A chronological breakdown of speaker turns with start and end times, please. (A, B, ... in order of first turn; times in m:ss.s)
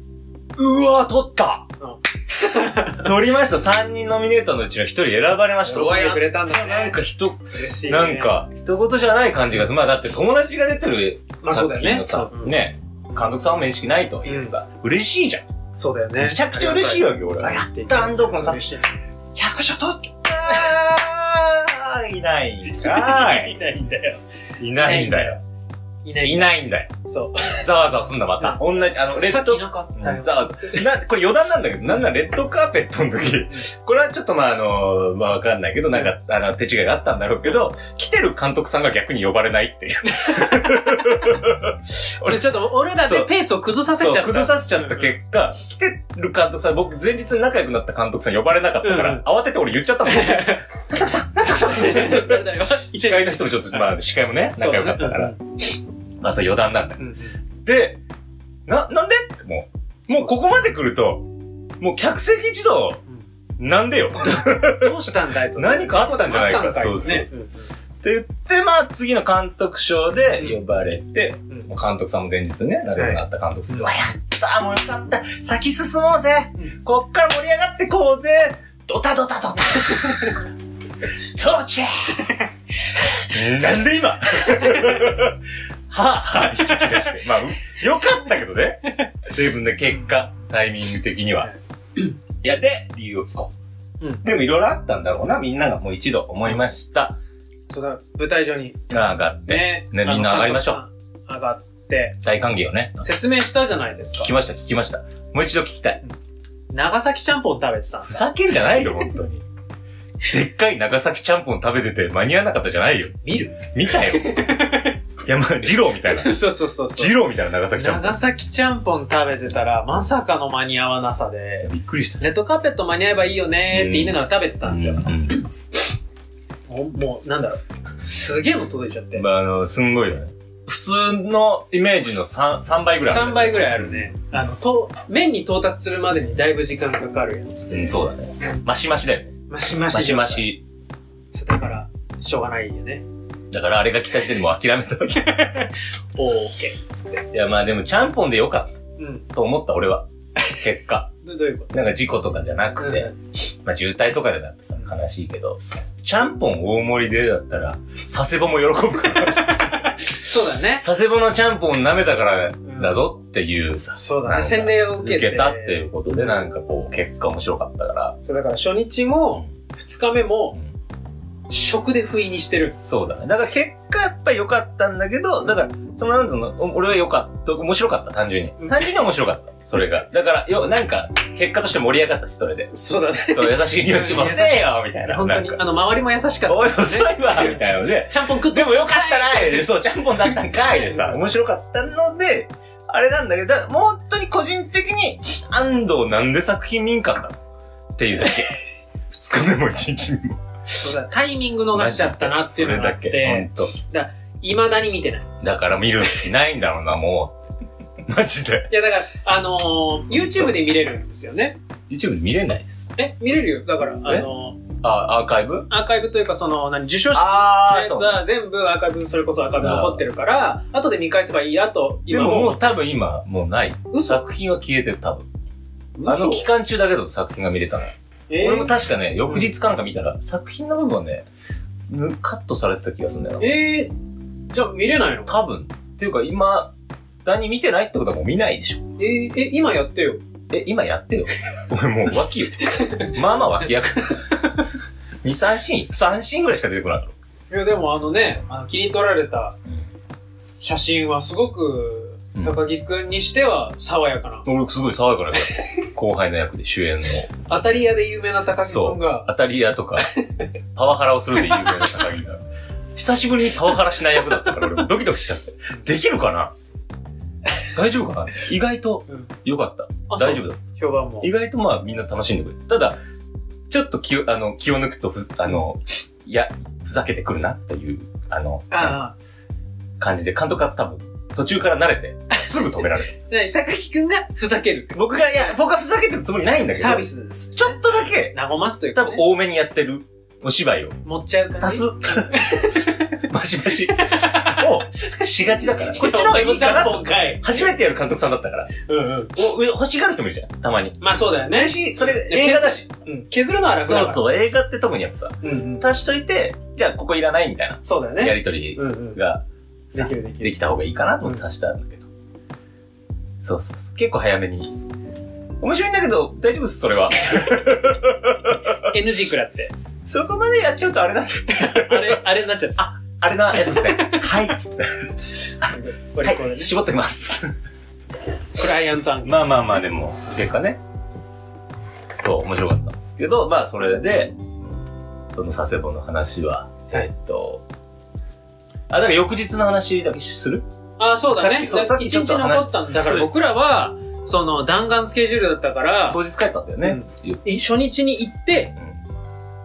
0:00.6-0:01.7 A
0:01.8-0:03.1 B
0:02.9-0:15.5 A
0:05.6-0:07.0 B
0:07.5-0:08.4 B
0:11.4-0:12.6 B
0:14.3-0:14.6 B
0:15.8-0:19.0 B
0:16.2-0:18.8 A
0:19.3-0:23.5 A
0:20.4-0:20.8 B
0:22.7-0:24.2 B
0:24.6-0:25.4 A
0:24.7-0:25.4 B
0:26.0-0:27.7 B
0:26.2-0:55.4 A
0:28.4-0:30.9 B
0:33.3-0:33.7 B
0:40.1-0:41.4 B
0:42.2-0:45.2 B
0:48.8-0:49.2 B
0:50.1-0:50.7 B
0:51.5-0:54.0 B
0:54.6-0:55.4 B
0:56.2-0:57.0 A
0:57.0-0:57.4 B
0:57.6-0:58.0 A
0:58.7-1:03.0 A
1:03.6-1:07.3 A
1:04.6-1:07.7 B
1:08.0-1:20.5 A
1:10.4-1:10.6 B
1:13.0-1:14.0 B
1:21.2-1:22.3 A
1:23.3-1:31.5 A
1:24.6-1:25.0 B
1:26.7-1:27.2 B
1:32.4-1:33.5 A
1:34.2-1:37.2 A
1:37.7-1:38.8 B
1:38.9-1:40.8 A
1:39.5-1:42.2 B
1:42.2-1:43.1 A
1:43.0-1:44.3 B
1:44.1-1:46.0 A
1:46.7-1:48.2 B
1:48.0-1:49.4 A
1:50.3-1:54.7 A
1:53.2-1:55.0 B
1:55.2-1:58.2 A
1:56.0-1:57.2 B
1:57.7-2:05.1 B
2:01.6-2:02.3 A
2:03.7-2:05.5 A
2:06.7-2:09.2 B
2:09.1-2:14.1 A
2:13.0-2:18.6 B
2:17.7-2:19.3 A
2:19.5-2:20.5 B
2:19.9-2:20.6 A
2:21.3-2:23.0 B
2:23.5-2:25.5 A
2:25.1-2:27.2 B
2:27.3-2:28.8 A
2:29.0-2:29.3 B
2:29.3-2:31.1 A
2:31.2-2:31.8 B
2:31.7-2:40.2 A
2:32.8-2:33.1 B
2:39.4-2:40.8 B
2:40.7-2:48.2 A
2:42.6-2:43.0 B
2:44.0-2:46.5 B
2:48.2-2:50.6 B
2:51.5-2:52.8 B
2:52.8-3:02.7 A
2:58.6-2:58.9 B
3:02.7-3:11.2 B
3:03.3-3:05.6 A
3:06.4-3:17.4 A
3:18.0-3:20.9 A
3:20.8-3:25.3 B
3:21.7-3:23.7 A
3:25.4-3:27.4 A
3:28.1-3:28.7 A
3:28.7-3:31.6 B
3:30.1-3:30.6 A
3:31.9-3:32.9 A
3:33.0-3:34.6 B
3:34.8-3:35.7 A
3:35.7-3:42.6 B
3:37.1-3:38.2 A
3:39.6-3:40.0 A
3:42.1-3:45.3 A
3:43.9-3:44.2 B
3:46.0-3:46.5 B
3:46.1-3:51.3 A
3:48.3-3:48.7 B
3:51.9-3:53.6 A
3:53.4-3:53.9 B
3:54.5-3:55.4 B
3:55.3-3:58.9 A
3:59.0-4:00.2 B
4:00.5-4:04.3 A
4:02.6-4:03.1 B
4:05.2-4:07.2 A
4:07.5-4:09.6 B
4:10.6-4:14.5 B
4:12.4-4:12.6 A
4:14.4-4:18.0 A
4:15.4-4:15.7 B
4:17.5-4:19.3 B
4:18.6-4:20.1 A
4:20.0-4:20.5 B
4:20.8-4:22.4 A
4:21.4-4:22.0 B
4:23.0-4:26.5 A
4:27.7-4:30.6 A
4:30.1-4:31.3 B
4:31.2-4:33.0 A
4:33.7-4:39.0 A
4:38.7-4:39.2 B
4:40.0-4:43.2 A
4:42.3-4:45.5 B
4:44.9-4:48.4 A
4:46.7-4:49.2 B
4:48.9-4:51.0 A
4:51.0-4:54.9 B
4:51.6-4:58.7 A
4:55.8-4:57.6 B
4:58.8-4:59.3 B
4:59.3-5:02.9 A
5:01.0-5:04.3 B
5:03.7-5:09.4 A
5:05.4-5:05.9 B
5:07.8-5:09.2 B
5:09.9-5:10.6 B
5:10.0-5:12.1 A
5:13.4-5:14.8 A
5:15.6-5:18.7 A
5:18.7-5:19.7 B
5:20.0-5:22.2 A
5:21.5-5:22.8 B
5:22.8-5:27.5 A
5:23.5-5:24.5 B
5:25.7-5:26.7 B
5:28.6-5:29.6 B
5:29.2-5:30.8 A
5:32.1-5:34.3 A
5:35.3-5:37.6 A
5:38.9-5:40.6 A
5:41.0-5:46.2 B
5:41.3-5:43.3 A
5:46.1-5:47.4 A
5:46.8-5:48.7 B